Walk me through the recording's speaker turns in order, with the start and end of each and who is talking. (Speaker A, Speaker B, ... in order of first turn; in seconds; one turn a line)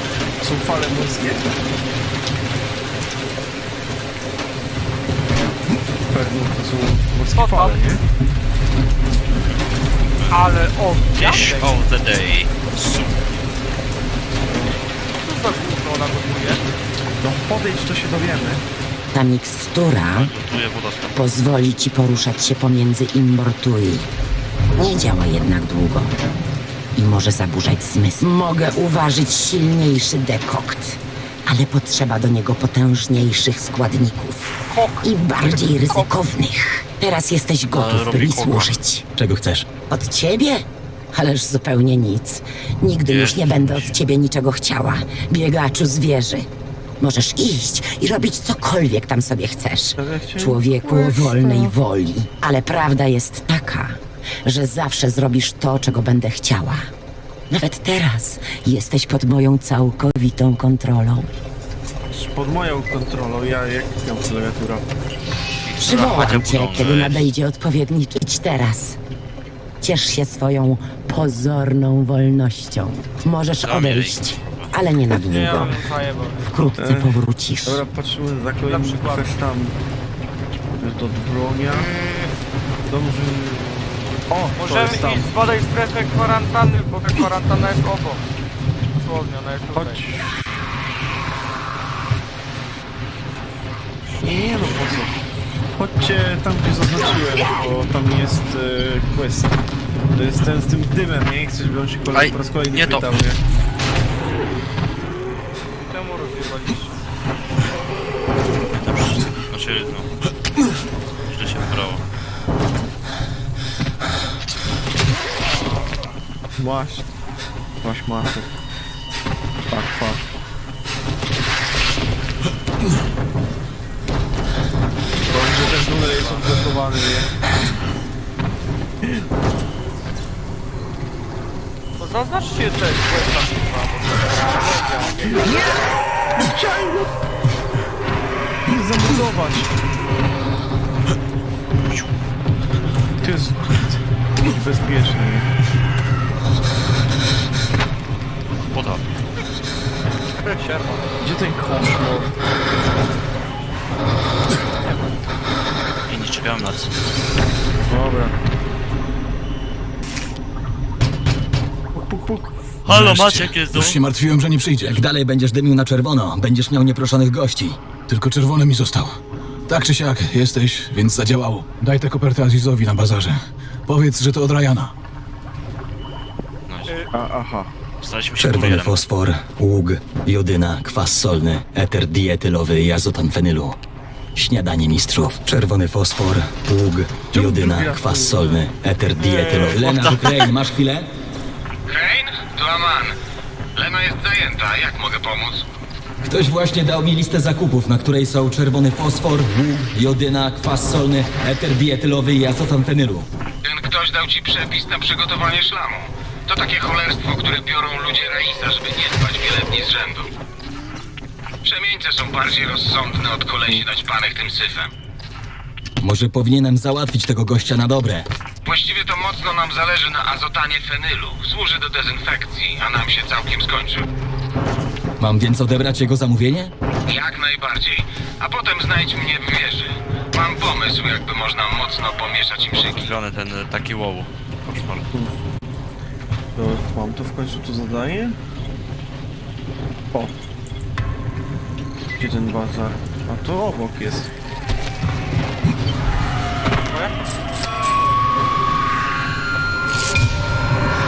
Speaker A: 0.4-1.4
Speaker A: 6.1-8.0
Speaker B: 7.3-7.9
Speaker B: 10.3-11.7
Speaker C: 11.1-12.9
Speaker A: 14.5-14.7
Speaker B: 15.2-16.6
Speaker A: 17.2-18.6
Speaker D: 19.1-20.3
Speaker C: 20.1-21.3
Speaker D: 21.1-24.1
Speaker D: 24.8-26.1
Speaker D: 26.9-39.0
Speaker B: 34.7-36.1
Speaker C: 37.6-38.8
Speaker E: 39.2-39.7
Speaker D: 39.9-46.5
Speaker C: 43.0-44.0
Speaker D: 47.0-56.8
Speaker A: 50.0-51.7
Speaker D: 57.5-61.3
Speaker A: 62.1-64.8
Speaker C: 65.6-67.3
Speaker D: 65.8-69.0
Speaker D: 69.8-75.7
Speaker C: 73.6-74.7
Speaker B: 75.2-76.5
Speaker D: 76.4-77.8
Speaker A: 76.8-79.8
Speaker B: 78.6-79.3
Speaker A: 80.8-81.9
Speaker B: 81.7-82.3
Speaker A: 82.9-85.2
Speaker B: 84.5-88.2
Speaker B: 88.9-90.0
Speaker A: 89.7-90.3
Speaker A: 94.2-95.2
Speaker A: 95.8-99.5
Speaker A: 100.1-103.4
Speaker C: 102.1-103.1
Speaker B: 105.8-106.9
Speaker C: 108.8-110.1
Speaker C: 111.2-112.0
Speaker A: 116.6-117.0
Speaker A: 117.8-118.5
Speaker A: 119.7-120.3
Speaker B: 125.2-126.5
Speaker A: 125.3-127.3
Speaker B: 132.0-135.7
Speaker A: 135.3-137.1
Speaker A: 138.7-139.8
Speaker C: 141.7-142.1
Speaker A: 143.2-145.5
Speaker C: 148.7-149.0
Speaker B: 150.4-151.0
Speaker A: 151.2-152.3
Speaker C: 156.1-156.9
Speaker A: 157.8-158.4
Speaker A: 161.9-162.8
Speaker C: 162.8-164.0
Speaker F: 162.8-165.0
Speaker E: 164.8-167.8
Speaker F: 168.1-174.9
Speaker C: 176.7-177.0
Speaker A: 177.1-177.7
Speaker C: 178.0-179.1
Speaker E: 178.4-183.8
Speaker E: 184.3-191.1
Speaker A: 187.3-188.7
Speaker C: 189.4-190.5
Speaker G: 191.9-193.1
Speaker G: 193.8-195.6
Speaker E: 196.2-203.3
Speaker G: 203.6-210.3
Speaker G: 211.6-214.9
Speaker E: 216.0-218.2
Speaker G: 218.6-224.1
Speaker E: 225.2-226.7
Speaker G: 227.0-233.1
Speaker C: 232.6-235.1
Speaker A: 236.6-238.4
Speaker A: 242.2-244.3
Speaker B: 246.9-247.1